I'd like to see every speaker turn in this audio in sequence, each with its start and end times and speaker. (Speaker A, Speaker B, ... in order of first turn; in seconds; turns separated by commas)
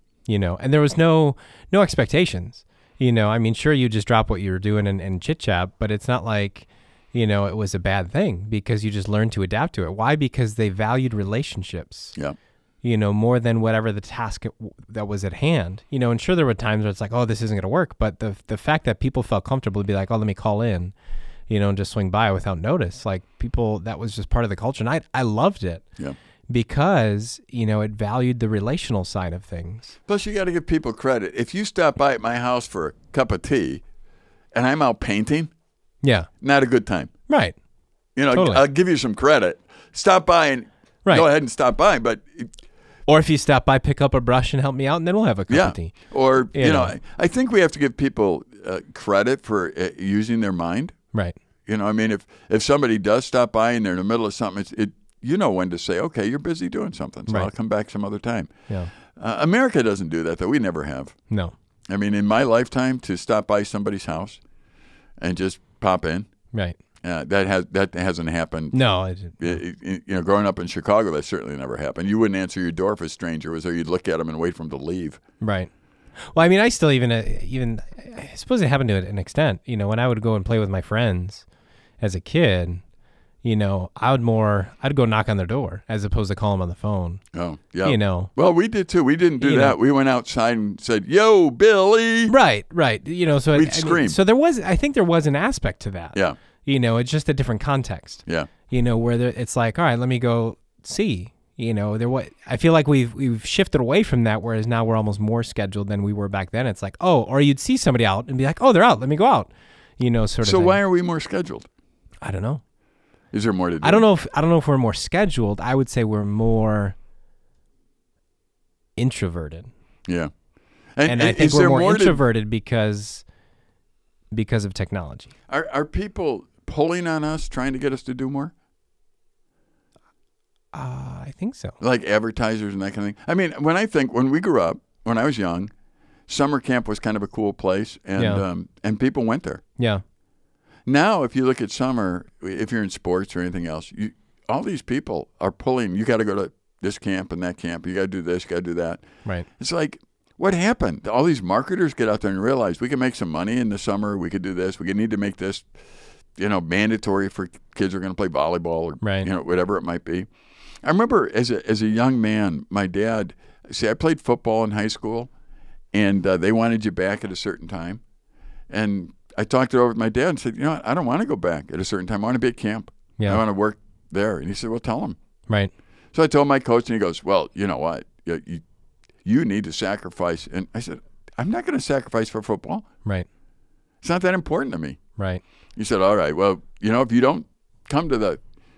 Speaker A: 0.3-12.1, Speaker A: 12.8-20.9, Speaker A: 21.5-25.8, Speaker A: 26.5-29.9, Speaker B: 30.1-33.8, Speaker B: 34.5-35.5, Speaker A: 36.0-36.3, Speaker B: 36.4-37.1, Speaker A: 37.3-37.5, Speaker B: 38.1-42.5, Speaker A: 38.3-38.6, Speaker A: 43.1-45.9, Speaker B: 45.5-50.9, Speaker A: 46.5-46.9, Speaker B: 51.7-58.5, Speaker B: 59.1-61.1, Speaker B: 61.9-64.4, Speaker B: 65.2-66.3, Speaker A: 66.5-66.8, Speaker B: 67.0-68.8, Speaker A: 68.7-69.6, Speaker B: 69.4-75.2, Speaker A: 75.4-81.4, Speaker A: 82.0-82.8, Speaker A: 83.4-87.2, Speaker B: 87.3-92.3, Speaker A: 87.8-88.3, Speaker A: 89.4-89.7, Speaker A: 92.3-110.8, Speaker B: 93.5-94.2, Speaker B: 110.4-111.7, Speaker A: 112.2-112.6, Speaker B: 113.3-114.0, Speaker A: 113.8-116.9, Speaker A: 119.0-119.7, Speaker B: 121.0-122.2, Speaker A: 121.1-123.2, Speaker A: 124.3-125.3, Speaker B: 125.5-128.5, Speaker A: 130.7-131.8, Speaker B: 131.8-135.7, Speaker B: 136.3-139.6, Speaker A: 138.2-138.4, Speaker A: 139.8-140.0, Speaker B: 140.8-149.0, Speaker B: 149.6-155.7, Speaker B: 156.4-160.3, Speaker A: 159.0-159.3, Speaker B: 160.8-165.3, Speaker B: 165.9-168.0, Speaker B: 168.7-175.2, Speaker B: 176.1-178.6, Speaker B: 179.2-182.9, Speaker B: 184.0-185.0, Speaker A: 185.2-185.4, Speaker B: 185.8-188.4